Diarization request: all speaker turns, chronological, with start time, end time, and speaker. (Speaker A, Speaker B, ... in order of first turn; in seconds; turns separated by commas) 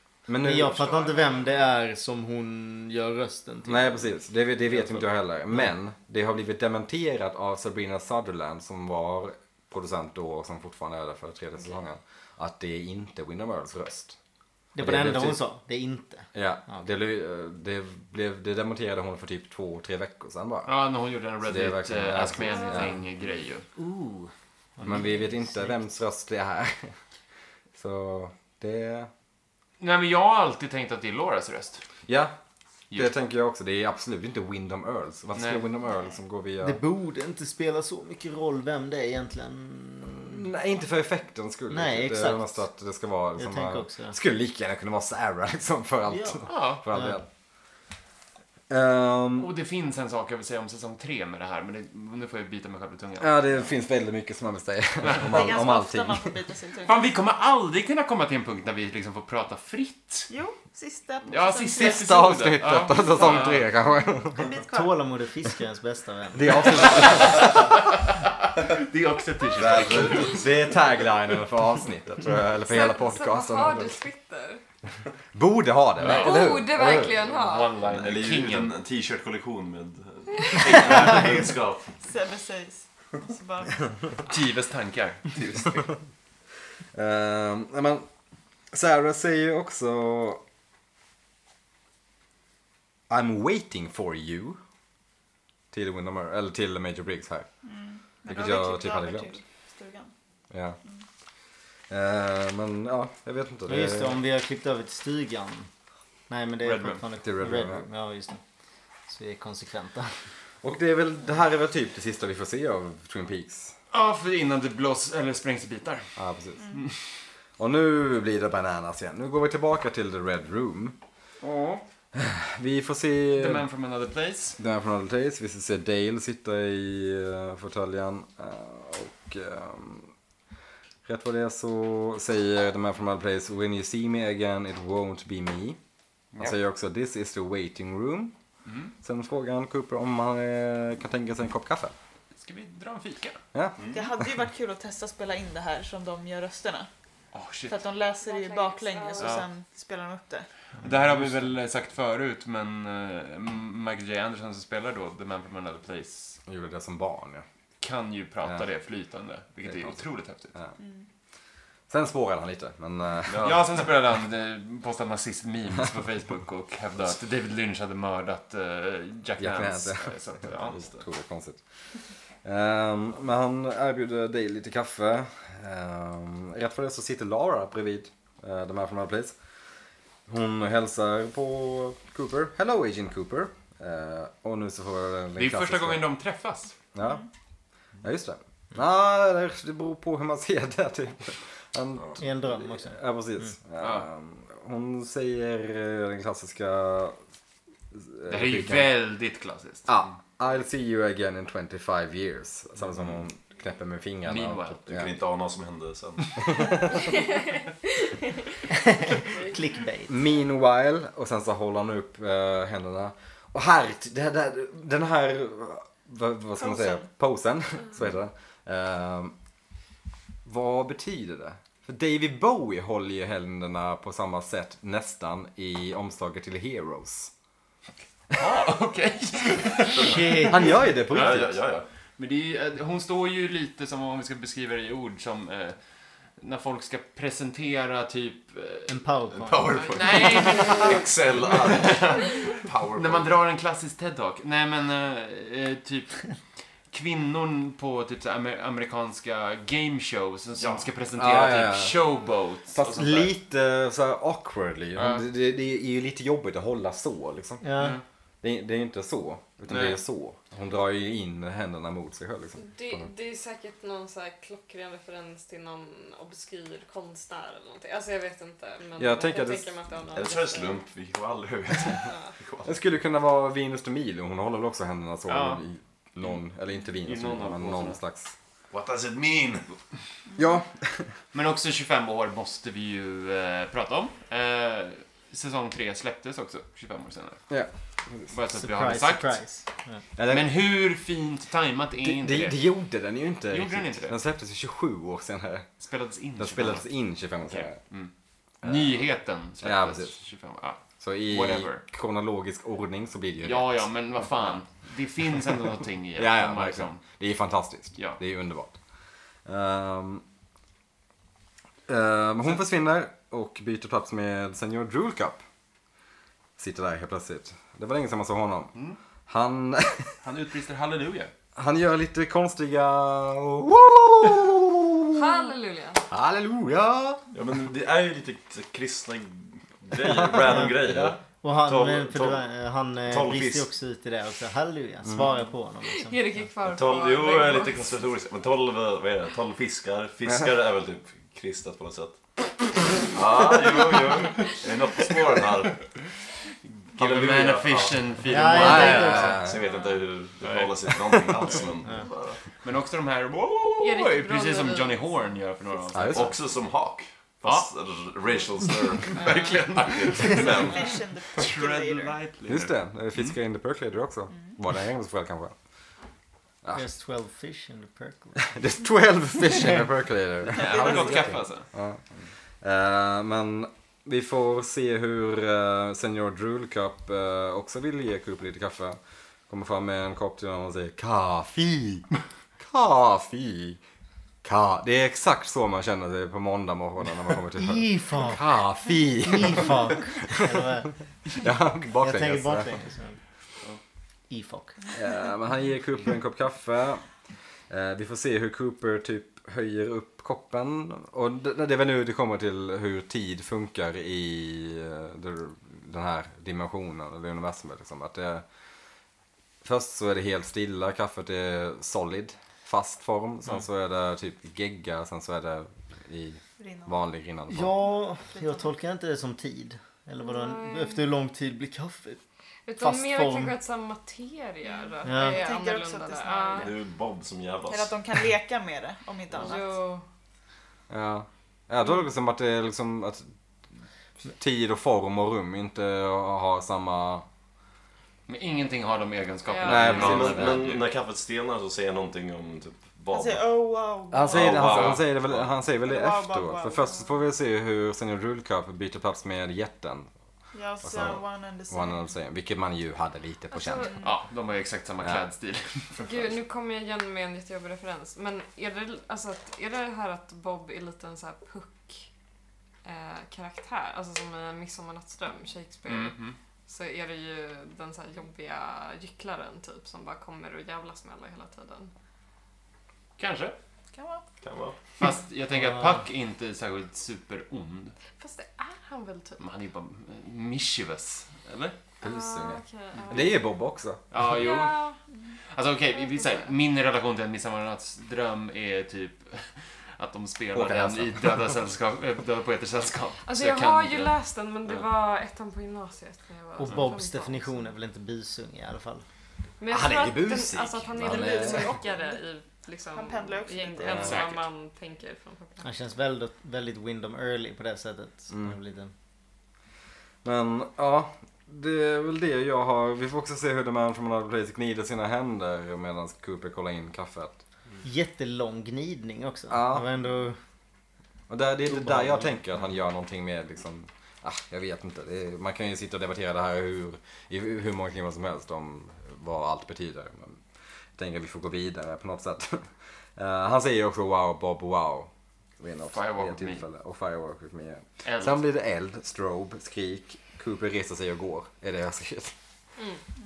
Speaker A: 0.3-1.1, Speaker B: 0.4-4.1, Speaker A: 3.7-14.2, Speaker B: 4.7-5.6, Speaker B: 14.8-16.8, Speaker A: 14.8-15.4, Speaker A: 16.3-20.7, Speaker C: 20.7-23.7, Speaker A: 21.4-23.0, Speaker D: 22.5-22.9, Speaker B: 23.8-25.8, Speaker A: 24.8-26.9, Speaker A: 27.8-29.1, Speaker C: 29.8-31.8, Speaker A: 32.1-32.3, Speaker A: 32.9-36.8, Speaker C: 35.4-35.6, Speaker B: 36.6-40.5, Speaker A: 40.2-47.2, Speaker B: 41.7-42.5, Speaker B: 43.4-44.2, Speaker B: 46.1-47.2, Speaker C: 46.5-46.8, Speaker A: 48.7-49.5, Speaker C: 49.4-53.7, Speaker A: 53.2-56.3, Speaker C: 55.0-55.4, Speaker E: 55.2-57.1, Speaker C: 56.8-60.3, Speaker E: 60.3-62.0, Speaker C: 61.3-63.7, Speaker A: 61.8-64.5, Speaker E: 63.5-65.0, Speaker B: 64.7-66.8, Speaker A: 66.3-67.7, Speaker C: 66.8-70.5, Speaker A: 69.6-74.0, Speaker D: 72.6-74.6, Speaker A: 75.3-77.1, Speaker C: 76.0-78.7, Speaker D: 76.0-77.7, Speaker F: 77.8-82.0, Speaker E: 82.0-83.9, Speaker C: 84.3-86.0, Speaker A: 86.9-88.0, Speaker A: 88.7-90.4, Speaker A: 93.1-94.6, Speaker A: 95.7-97.5, Speaker E: 97.6-100.1, Speaker A: 98.3-99.4, Speaker A: 100.5-100.8, Speaker A: 101.9-104.2, Speaker B: 103.7-105.7, Speaker B: 106.3-108.4, Speaker C: 106.6-107.0, Speaker A: 107.2-107.8, Speaker B: 109.1-110.2, Speaker A: 110.6-113.8, Speaker C: 113.9-116.1, Speaker A: 116.2-116.8, Speaker E: 116.6-116.8, Speaker A: 117.6-121.0, Speaker C: 121.4-121.8, Speaker A: 122.1-123.7, Speaker C: 123.3-124.6, Speaker A: 124.6-130.1, Speaker A: 131.1-135.8, Speaker A: 136.4-138.3, Speaker C: 138.7-138.9, Speaker A: 139.0-141.9, Speaker C: 142.4-143.4, Speaker A: 143.5-143.8, Speaker E: 143.9-146.9, Speaker C: 147.3-147.8, Speaker E: 147.7-150.5, Speaker D: 148.2-149.4, Speaker C: 149.2-149.5, Speaker C: 150.8-156.4, Speaker A: 156.5-157.4, Speaker C: 157.8-160.5, Speaker A: 159.7-159.9, Speaker E: 160.8-161.1, Speaker A: 161.9-163.6, Speaker F: 163.2-163.8, Speaker C: 163.4-170.9, Speaker A: 169.4-171.6, Speaker A: 172.4-179.3, Speaker A: 180.3-186.0, Speaker C: 185.4-186.8, Speaker A: 186.9-187.2, Speaker A: 188.0-197.2, Speaker B: 192.2-193.0, Speaker C: 193.8-194.1, Speaker A: 197.9-198.9, Speaker C: 198.3-199.9, Speaker A: 199.9-205.1, Speaker C: 204.2-204.8, Speaker F: 204.9-206.9, Speaker A: 206.4-207.1, Speaker D: 207.2-207.5, Speaker B: 208.7-210.2, Speaker A: 210.1-219.3, Speaker E: 216.6-217.1, Speaker A: 220.4-227.3, Speaker C: 228.3-231.5, Speaker B: 230.0-230.7, Speaker F: 230.0-230.2, Speaker A: 230.5-231.6, Speaker F: 231.1-231.8, Speaker C: 232.2-235.8, Speaker C: 236.4-238.9, Speaker B: 238.9-239.8, Speaker F: 239.3-243.3, Speaker C: 239.8-242.4, Speaker C: 242.9-246.3, Speaker C: 246.9-253.3, Speaker F: 250.6-250.9, Speaker A: 251.2-252.0, Speaker A: 252.8-257.6, Speaker C: 255.0-255.2, Speaker B: 257.6-258.0, Speaker A: 258.4-263.1, Speaker C: 259.7-260.0, Speaker D: 262.6-270.8, Speaker A: 269.0-269.7, Speaker F: 270.1-272.7, Speaker D: 272.0-272.3, Speaker A: 272.6-278.3, Speaker C: 275.3-275.6, Speaker C: 277.0-278.0, Speaker F: 278.7-279.7, Speaker A: 280.4-281.1, Speaker C: 281.3-287.4, Speaker A: 287.5-288.3, Speaker C: 288.3-289.4, Speaker B: 288.5-290.0, Speaker A: 290.2-290.5, Speaker C: 290.3-292.6, Speaker A: 292.0-295.7, Speaker C: 293.5-294.2, Speaker C: 295.8-296.8, Speaker A: 296.4-297.8, Speaker C: 297.5-298.1, Speaker C: 298.6-301.8, Speaker A: 299.6-300.1, Speaker A: 301.0-303.9, Speaker C: 303.4-307.0, Speaker A: 306.2-308.8, Speaker A: 309.5-310.2, Speaker A: 311.9-315.4, Speaker A: 316.6-318.7, Speaker A: 319.3-320.2, Speaker C: 320.2-321.3, Speaker A: 321.6-325.4, Speaker D: 325.1-326.0, Speaker A: 326.1-327.2, Speaker F: 327.3-332.4, Speaker A: 330.2-331.1, Speaker B: 331.4-336.2, Speaker F: 333.1-333.7, Speaker A: 335.1-335.3, Speaker D: 335.9-337.8, Speaker F: 336.7-342.2, Speaker F: 342.9-345.9, Speaker C: 346.9-349.4, Speaker F: 347.0-352.4, Speaker B: 348.3-349.4, Speaker A: 348.5-349.6, Speaker C: 350.4-351.6, Speaker C: 352.6-356.3, Speaker D: 353.8-355.2, Speaker A: 355.9-356.4, Speaker F: 356.1-361.5, Speaker C: 357.4-357.7, Speaker C: 359.0-363.3, Speaker E: 360.3-362.2, Speaker A: 362.5-365.5, Speaker B: 366.7-368.4, Speaker A: 368.4-372.0, Speaker C: 370.5-371.7, Speaker E: 370.6-371.3, Speaker A: 372.6-383.8, Speaker A: 384.4-390.7, Speaker B: 387.6-388.4, Speaker B: 389.2-390.9, Speaker A: 391.3-392.7, Speaker B: 392.0-393.2, Speaker B: 394.3-394.8, Speaker A: 394.9-397.0, Speaker A: 397.7-408.4, Speaker A: 409.6-417.7, Speaker E: 416.6-417.0, Speaker B: 417.5-422.2, Speaker E: 418.3-418.6, Speaker D: 420.2-421.0, Speaker D: 422.7-426.7, Speaker B: 422.8-423.6, Speaker E: 424.6-426.8, Speaker B: 425.0-425.4, Speaker F: 426.6-428.1, Speaker E: 427.7-429.8, Speaker D: 429.4-430.0, Speaker A: 430.9-433.3, Speaker A: 434.3-437.2, Speaker C: 438.3-440.9, Speaker D: 439.5-440.0, Speaker A: 439.6-440.7, Speaker F: 439.7-443.5, Speaker E: 443.1-444.5, Speaker A: 444.1-450.1, Speaker F: 444.3-445.5, Speaker C: 444.5-445.0, Speaker E: 445.8-447.2, Speaker E: 450.5-452.0, Speaker A: 450.8-453.9, Speaker D: 453.5-454.0, Speaker E: 453.7-454.1, Speaker C: 454.0-456.0, Speaker D: 456.0-462.1, Speaker D: 462.8-471.9, Speaker C: 465.8-466.4, Speaker C: 473.2-473.6, Speaker E: 473.9-474.2, Speaker F: 474.4-474.8, Speaker C: 475.0-478.0, Speaker D: 478.2-479.4, Speaker C: 479.4-481.8, Speaker D: 482.0-483.4, Speaker A: 482.0-484.0, Speaker C: 484.1-484.8, Speaker D: 484.3-485.0, Speaker C: 485.5-494.2, Speaker D: 486.0-486.5, Speaker A: 490.5-491.5, Speaker D: 493.2-497.6, Speaker B: 496.6-499.0, Speaker D: 499.6-505.7, Speaker A: 499.7-501.8, Speaker E: 501.3-502.2, Speaker E: 502.9-504.2, Speaker C: 503.9-504.4, Speaker B: 505.6-508.9, Speaker A: 508.3-508.6, Speaker A: 510.2-517.4, Speaker B: 517.8-520.4, Speaker A: 519.5-519.9, Speaker A: 521.3-530.4, Speaker B: 521.7-522.4, Speaker A: 531.0-542.4, Speaker C: 535.9-536.6, Speaker C: 538.0-538.4